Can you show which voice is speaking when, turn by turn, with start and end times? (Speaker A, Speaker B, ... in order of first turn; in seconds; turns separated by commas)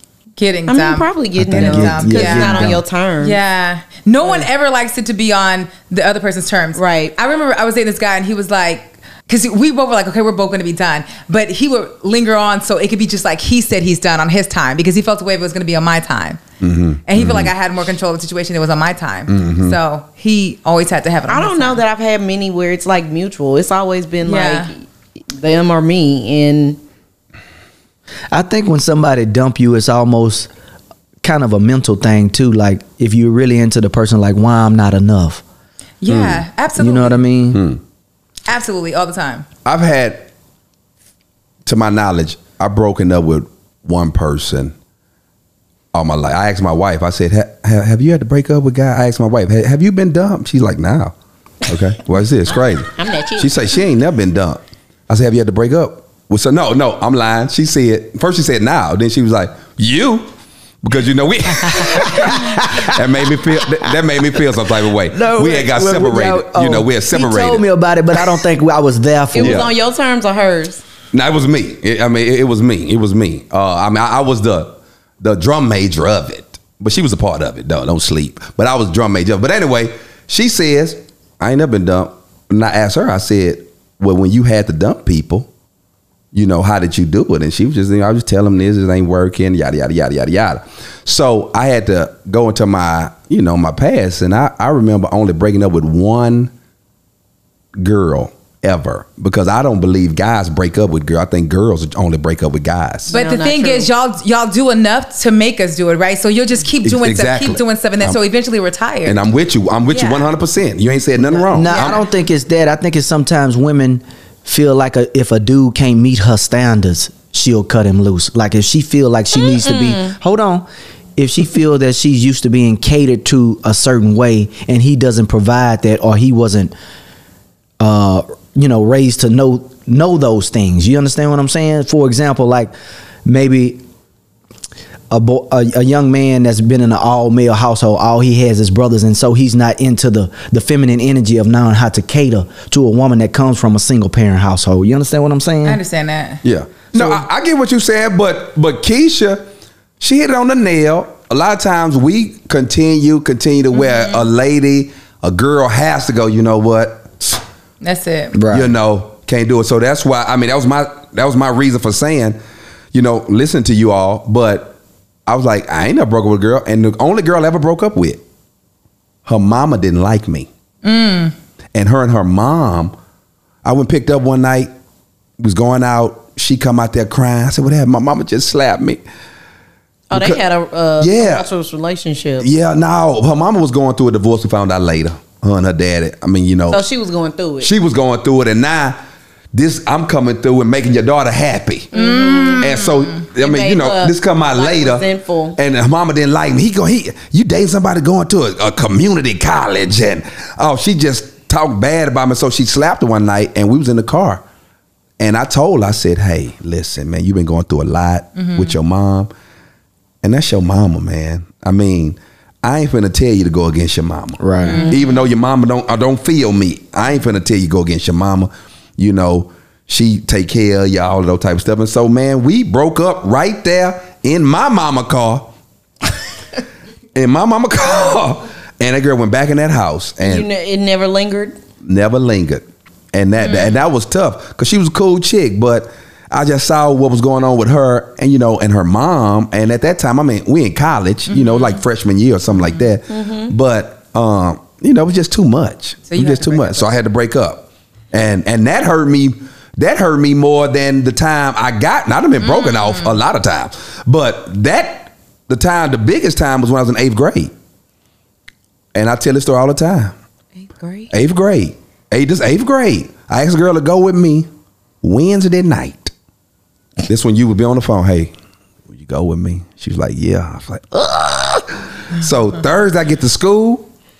Speaker A: 0.4-16.4, Speaker B: 0.7-3.4, Speaker C: 1.4-2.8, Speaker B: 4.2-4.5, Speaker B: 6.8-7.2, Speaker D: 16.6-17.5, Speaker A: 17.1-21.8, Speaker D: 19.3-19.8, Speaker B: 21.3-24.8, Speaker A: 24.2-24.7, Speaker B: 25.3-26.8, Speaker C: 28.3-30.5, Speaker C: 31.2-35.4, Speaker A: 36.0-37.2, Speaker D: 36.1-36.4, Speaker C: 36.8-37.6, Speaker D: 37.5-37.8, Speaker A: 38.5-39.5, Speaker D: 39.6-40.3, Speaker D: 41.7-44.7, Speaker D: 45.9-51.1, Speaker D: 51.6-60.3, Speaker B: 52.5-53.8, Speaker D: 60.8-67.6, Speaker C: 61.8-63.8, Speaker C: 65.1-69.7, Speaker B: 69.3-70.8, Speaker D: 69.4-69.7, Speaker D: 71.1-85.5, Speaker D: 86.3-96.5, Speaker D: 97.8-103.1, Speaker B: 103.1-103.9, Speaker A: 103.1-109.2, Speaker D: 106.8-108.2, Speaker D: 109.0-112.0, Speaker A: 109.9-110.3, Speaker C: 111.5-126.7, Speaker A: 111.6-112.0, Speaker B: 119.4-120.2, Speaker C: 127.8-132.7, Speaker C: 133.2-133.8, Speaker C: 135.1-145.8, Speaker A: 145.7-146.4, Speaker D: 146.4-149.4, Speaker C: 146.9-147.2, Speaker D: 150.0-157.4, Speaker A: 157.8-158.4, Speaker C: 158.3-158.7, Speaker D: 158.5-162.4, Speaker D: 162.9-164.8, Speaker D: 165.3-168.2, Speaker D: 169.2-170.5, Speaker A: 170.8-171.3, Speaker D: 171.7-172.9, Speaker D: 173.6-174.7, Speaker D: 175.4-179.0, Speaker B: 180.1-182.5, Speaker D: 180.1-180.4, Speaker D: 181.0-181.5, Speaker D: 182.4-186.8, Speaker B: 186.7-187.7, Speaker D: 187.6-189.0, Speaker D: 189.5-191.9, Speaker B: 191.9-192.7, Speaker A: 191.9-193.2, Speaker D: 192.6-195.1, Speaker B: 193.3-195.6, Speaker D: 195.6-204.4, Speaker D: 205.2-209.3, Speaker A: 208.4-208.7, Speaker D: 210.2-225.5, Speaker C: 214.4-214.8, Speaker A: 214.6-215.1, Speaker B: 214.7-214.9, Speaker D: 227.2-230.5, Speaker B: 230.2-231.6, Speaker D: 231.8-257.5, Speaker A: 241.3-241.8, Speaker B: 243.1-243.5, Speaker A: 246.1-246.9, Speaker A: 252.4-253.2, Speaker D: 258.9-260.1, Speaker B: 260.6-261.1, Speaker D: 261.1-264.5, Speaker D: 265.0-266.1, Speaker D: 267.1-268.3, Speaker D: 268.9-273.9